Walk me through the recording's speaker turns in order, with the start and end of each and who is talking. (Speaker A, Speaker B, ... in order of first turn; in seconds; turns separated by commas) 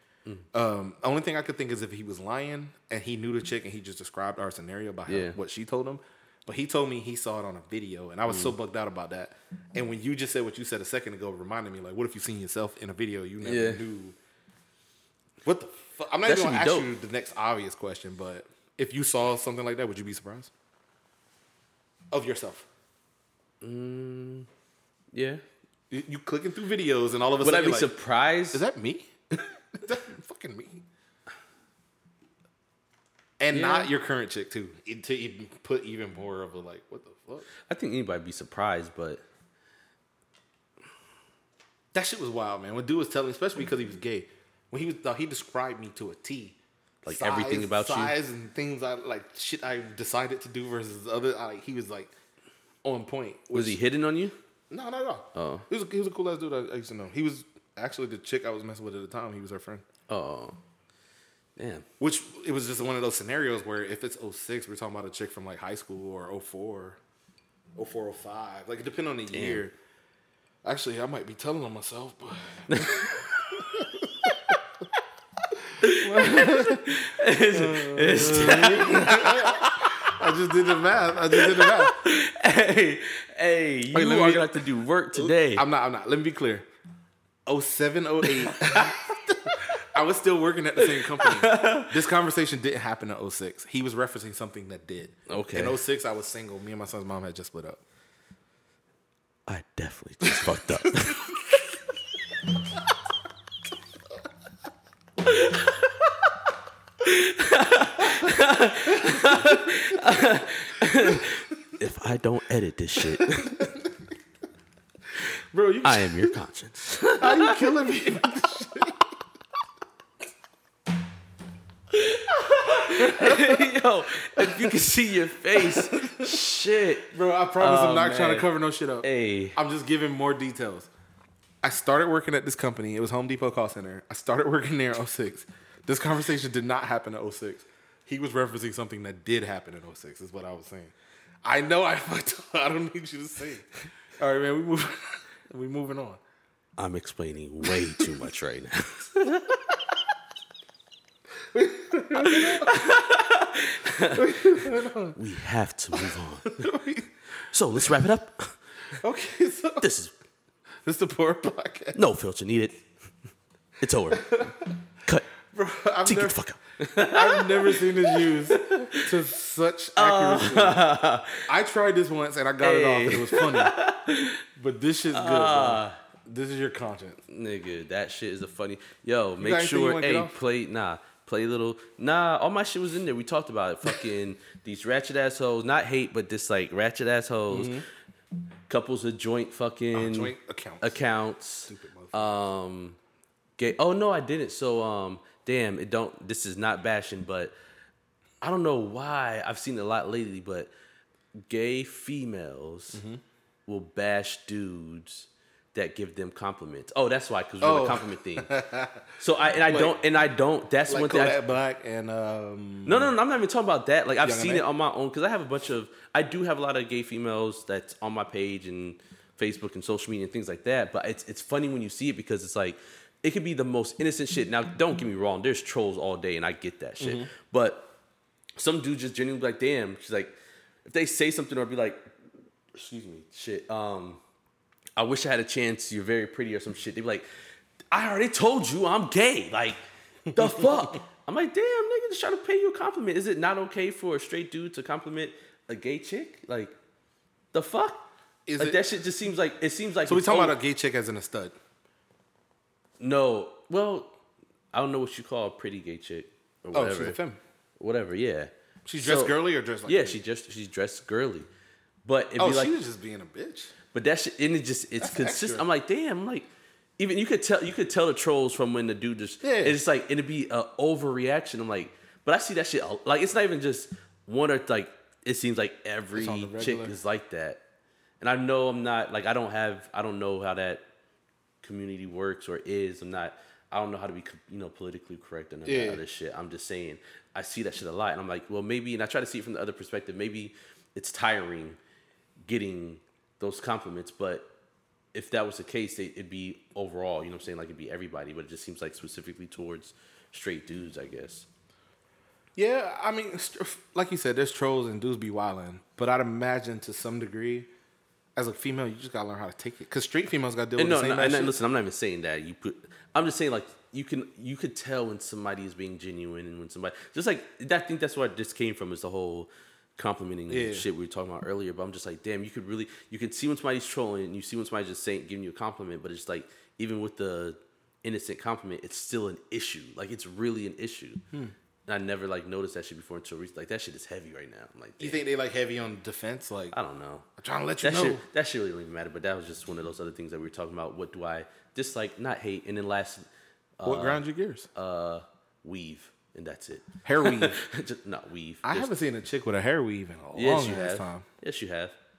Speaker A: 0.5-14.2, Speaker B: 5.1-5.4, Speaker B: 13.4-13.8, Speaker A: 15.4-20.5, Speaker B: 16.3-16.9, Speaker A: 22.1-22.7, Speaker B: 23.6-24.5, Speaker B: 25.1-25.4, Speaker A: 25.9-27.9, Speaker B: 27.4-28.6, Speaker A: 28.5-29.1, Speaker A: 29.7-30.8, Speaker A: 33.4-37.5, Speaker B: 33.5-33.9, Speaker B: 37.7-39.2, Speaker A: 41.9-52.1, Speaker B: 47.0-48.2, Speaker A: 52.8-53.8, Speaker B: 53.5-54.4, Speaker A: 54.7-59.9, Speaker B: 55.4-55.7, Speaker B: 60.1-60.6, Speaker B: 61.6-61.9, Speaker A: 62.0-67.0, Speaker A: 67.8-69.7, Speaker B: 69.3-69.7, Speaker A: 70.6-74.5, Speaker B: 72.7-73.2, Speaker A: 75.7-77.0, Speaker B: 75.8-80.2, Speaker A: 77.5-82.0, Speaker B: 81.3-85.7, Speaker A: 83.9-86.7, Speaker A: 87.5-97.8, Speaker B: 88.2-88.9, Speaker B: 90.8-92.0, Speaker B: 95.3-95.8, Speaker B: 99.5-101.3, Speaker A: 100.3-101.2, Speaker B: 105.4-105.6, Speaker B: 107.0-113.7, Speaker A: 108.0-108.3, Speaker A: 108.8-110.1, Speaker A: 111.0-111.3, Speaker A: 113.1-113.9, Speaker A: 115.5-116.4, Speaker B: 115.8-117.7, Speaker A: 117.2-119.1, Speaker B: 121.9-128.5, Speaker A: 122.7-123.7, Speaker A: 124.4-124.8, Speaker A: 125.5-126.4, Speaker A: 127.1-130.9, Speaker B: 129.0-129.6, Speaker A: 131.6-146.2, Speaker B: 146.8-149.6, Speaker A: 147.7-148.2, Speaker A: 151.5-152.8, Speaker B: 152.2-154.3, Speaker A: 154.1-155.2, Speaker B: 155.2-156.7, Speaker A: 155.9-157.1, Speaker B: 157.4-158.6, Speaker A: 159.0-159.9, Speaker B: 159.8-160.1, Speaker A: 160.8-162.0, Speaker B: 161.9-162.8, Speaker B: 163.8-164.5, Speaker A: 164.1-164.7, Speaker A: 165.5-166.4, Speaker B: 166.0-169.1, Speaker A: 166.9-170.8, Speaker B: 170.0-171.5, Speaker A: 171.5-173.8, Speaker B: 172.6-174.4, Speaker A: 174.6-177.2, Speaker B: 175.1-176.0, Speaker B: 177.3-187.8, Speaker A: 179.4-180.4, Speaker A: 187.5-187.8, Speaker B: 188.7-193.0, Speaker A: 189.9-191.0, Speaker A: 191.7-192.5, Speaker B: 193.6-197.5, Speaker B: 198.4-200.7, Speaker B: 201.5-203.0, Speaker A: 202.9-203.2, Speaker B: 203.7-208.5, Speaker A: 207.6-209.1, Speaker B: 209.2-211.4, Speaker A: 209.7-210.0, Speaker A: 210.9-213.1, Speaker B: 212.9-227.9, Speaker A: 214.2-214.7, Speaker A: 227.0-227.3, Speaker B: 228.6-232.1, Speaker B: 232.7-234.2, Speaker B: 235.0-237.3, Speaker B: 237.9-246.8, Speaker B: 247.5-248.1, Speaker A: 248.5-248.8, Speaker B: 248.6-250.6, Speaker A: 250.1-251.6, Speaker B: 253.0-254.1, Speaker B: 254.7-257.2, Speaker A: 256.7-257.4, Speaker B: 257.8-261.5, Speaker A: 258.9-260.2, Speaker B: 262.1-262.8, Speaker A: 262.4-263.7, Speaker B: 263.9-266.5, Speaker A: 265.0-265.7, Speaker B: 267.0-277.6, Speaker A: 269.4-269.8, Speaker A: 276.1-276.9, Speaker B: 278.2-280.8, Speaker B: 281.6-291.8, Speaker A: 285.6-286.0, Speaker B: 292.5-294.5, Speaker B: 295.1-301.5, Speaker A: 302.6-307.7, Speaker A: 308.4-311.6, Speaker B: 310.8-331.2, Speaker A: 320.5-320.9, Speaker B: 331.9-335.2, Speaker A: 335.0-336.8, Speaker B: 336.7-337.3, Speaker A: 337.4-338.2, Speaker B: 337.8-343.3, Speaker B: 343.8-348.9, Speaker A: 343.8-344.7, Speaker A: 347.0-347.6, Speaker A: 348.6-351.2, Speaker B: 350.4-352.0